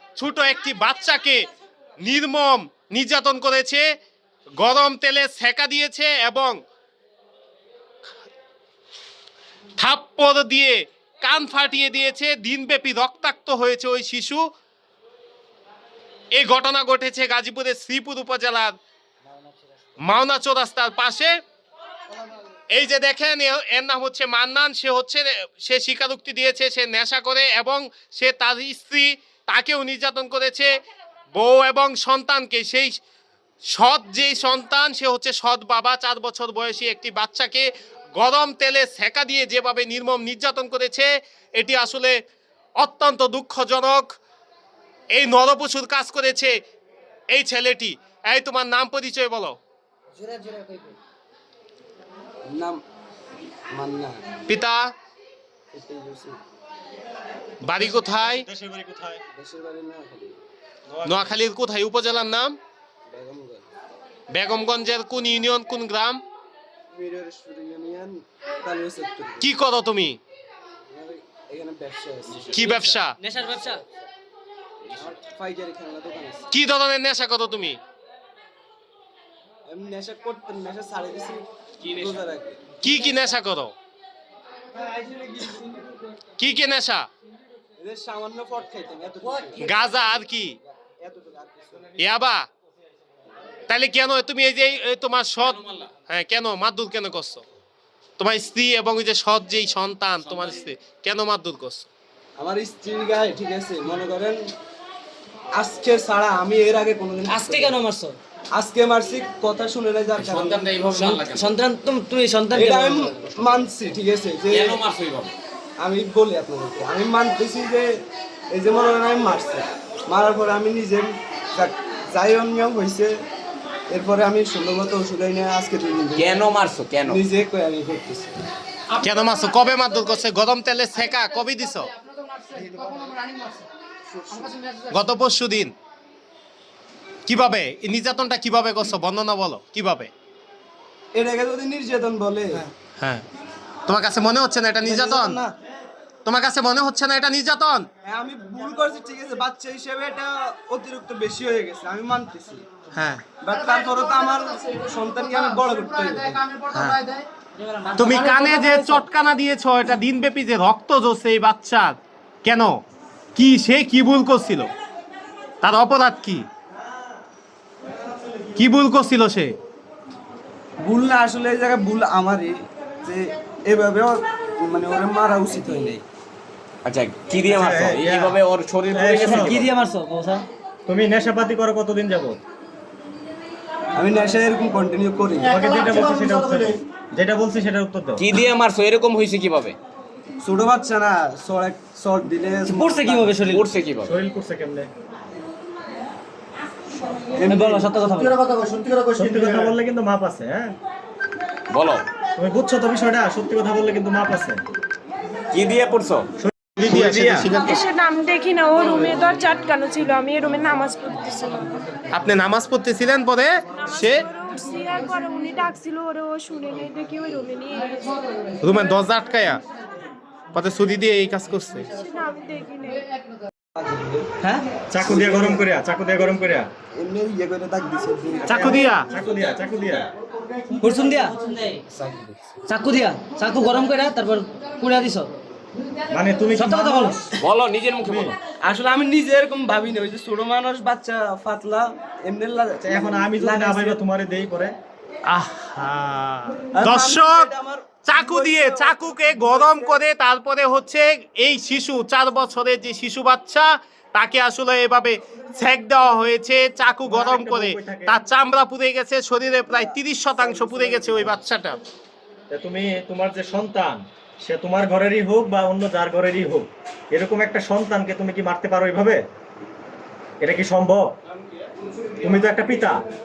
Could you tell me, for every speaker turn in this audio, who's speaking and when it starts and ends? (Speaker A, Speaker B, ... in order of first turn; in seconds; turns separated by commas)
Speaker A: 0.1-1.4, Speaker A: 2.0-3.9, Speaker A: 4.6-6.6, Speaker A: 9.8-14.4, Speaker A: 16.3-18.7, Speaker A: 20.0-21.4, Speaker A: 22.7-30.7, Speaker A: 31.3-33.0, Speaker A: 33.7-42.2, Speaker A: 42.8-44.1, Speaker A: 45.1-46.5, Speaker A: 47.3-49.6, Speaker B: 50.2-50.9, Speaker C: 52.5-52.8, Speaker C: 53.7-54.2, Speaker A: 54.5-54.9, Speaker C: 55.7-56.4, Speaker A: 57.6-58.5, Speaker D: 57.6-59.2, Speaker C: 59.3-60.4, Speaker D: 60.9-61.4, Speaker A: 61.0-62.5, Speaker C: 63.1-63.6, Speaker A: 64.3-66.2, Speaker C: 66.9-69.5, Speaker A: 69.4-70.2, Speaker C: 70.9-72.9, Speaker A: 72.5-73.2, Speaker B: 73.2-73.8, Speaker C: 74.9-76.5, Speaker A: 76.5-77.8, Speaker C: 79.6-82.6, Speaker E: 81.8-82.2, Speaker A: 82.8-83.7, Speaker A: 86.4-87.1, Speaker C: 87.8-91.9, Speaker A: 89.6-90.5, Speaker A: 92.0-92.5, Speaker A: 93.7-97.4, Speaker E: 95.4-95.9, Speaker A: 98.2-101.9, Speaker E: 100.3-100.6, Speaker C: 102.4-104.4, Speaker C: 105.6-107.8, Speaker B: 107.2-108.2, Speaker C: 108.5-110.7, Speaker E: 110.2-111.6, Speaker B: 111.0-113.3, Speaker C: 112.5-114.8, Speaker E: 114.5-115.3, Speaker C: 115.8-117.9, Speaker C: 118.5-123.2, Speaker C: 123.9-126.5, Speaker E: 126.1-127.2, Speaker C: 127.1-128.4, Speaker A: 129.0-131.9, Speaker C: 132.6-133.1, Speaker C: 134.1-134.6, Speaker A: 134.9-135.7, Speaker A: 137.2-140.1, Speaker C: 141.1-142.7, Speaker A: 143.0-143.2, Speaker A: 143.9-145.4, Speaker C: 144.8-145.5, Speaker A: 146.2-147.9, Speaker C: 148.0-152.6, Speaker A: 152.9-153.2, Speaker C: 153.4-156.5, Speaker A: 156.7-157.0, Speaker B: 157.9-158.9, Speaker A: 158.0-162.8, Speaker A: 163.3-164.7, Speaker A: 165.6-166.4, Speaker A: 168.6-169.5, Speaker C: 170.8-176.0, Speaker E: 176.8-179.7, Speaker D: 177.4-178.4, Speaker D: 178.9-179.7, Speaker F: 179.4-180.4, Speaker D: 180.9-182.4, Speaker C: 183.9-185.7, Speaker D: 185.4-188.3, Speaker E: 188.2-189.8, Speaker C: 190.4-193.4, Speaker F: 192.7-193.6, Speaker E: 193.4-194.1, Speaker D: 194.0-194.9, Speaker C: 197.4-197.9, Speaker F: 197.5-198.4, Speaker D: 199.1-200.8, Speaker E: 201.7-202.0, Speaker D: 202.3-204.6, Speaker E: 205.5-206.3, Speaker D: 206.4-207.5, Speaker A: 206.8-207.8, Speaker B: 207.6-211.7, Speaker A: 212.1-214.3, Speaker B: 213.8-218.1, Speaker A: 218.6-219.6, Speaker A: 220.5-221.9, Speaker B: 222.0-223.0, Speaker C: 223.8-224.3, Speaker D: 224.9-226.7, Speaker C: 225.0-225.6, Speaker C: 226.9-228.8, Speaker A: 228.4-229.1, Speaker D: 228.5-230.1, Speaker F: 230.8-231.4, Speaker C: 231.9-232.5, Speaker F: 232.7-235.3, Speaker D: 236.1-237.2, Speaker F: 236.5-237.2, Speaker E: 237.3-238.4, Speaker D: 238.0-238.3, Speaker C: 238.6-244.0, Speaker D: 242.8-244.8, Speaker A: 245.3-247.5, Speaker C: 246.8-250.1, Speaker A: 248.0-261.8, Speaker D: 257.0-258.2, Speaker C: 259.7-261.4, Speaker D: 262.5-269.2, Speaker D: 270.4-271.1, Speaker D: 272.2-273.0